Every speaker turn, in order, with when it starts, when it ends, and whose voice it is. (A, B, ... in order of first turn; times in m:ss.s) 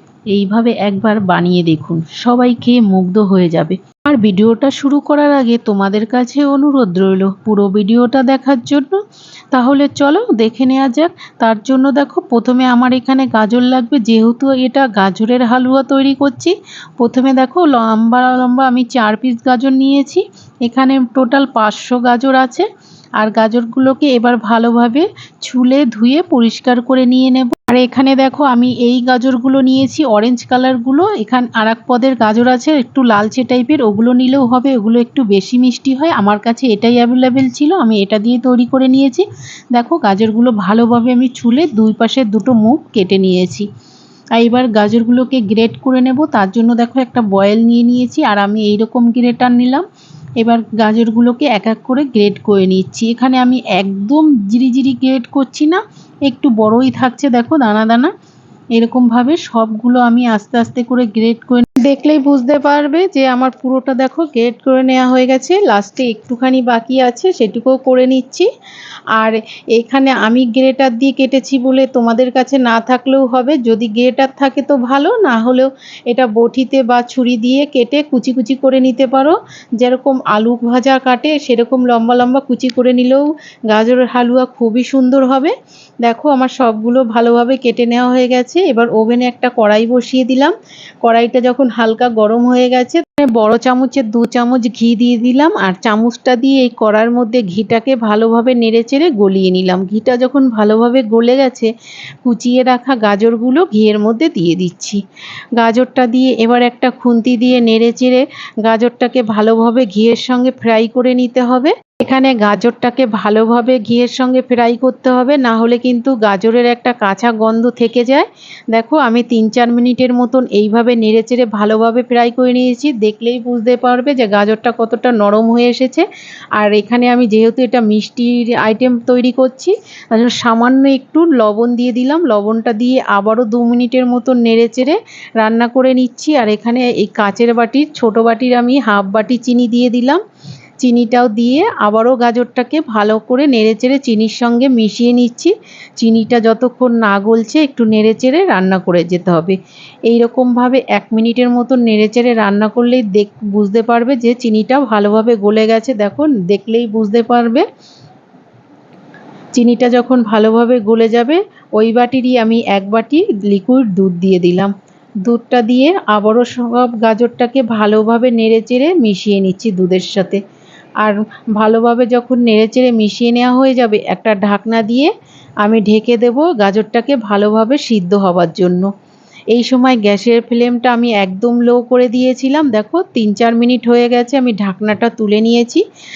0:00.3-0:09.0 A
0:09.5-0:22.6 A
0:23.2-0:43.7 A
0:44.4-0:49.8 A
0:50.4-0:58.1 A
0:58.7-1:08.5 A
1:09.2-1:25.5 A
1:26.0-1:41.7 A
1:42.2-1:45.0 A
1:45.6-2:06.0 A
2:06.6-2:20.2 A
2:20.8-2:29.6 A
2:30.1-2:37.6 A
2:39.5-2:44.7 A
2:45.2-2:50.4 A
2:51.0-2:55.1 A
2:55.6-2:58.9 A
2:59.5-3:05.8 A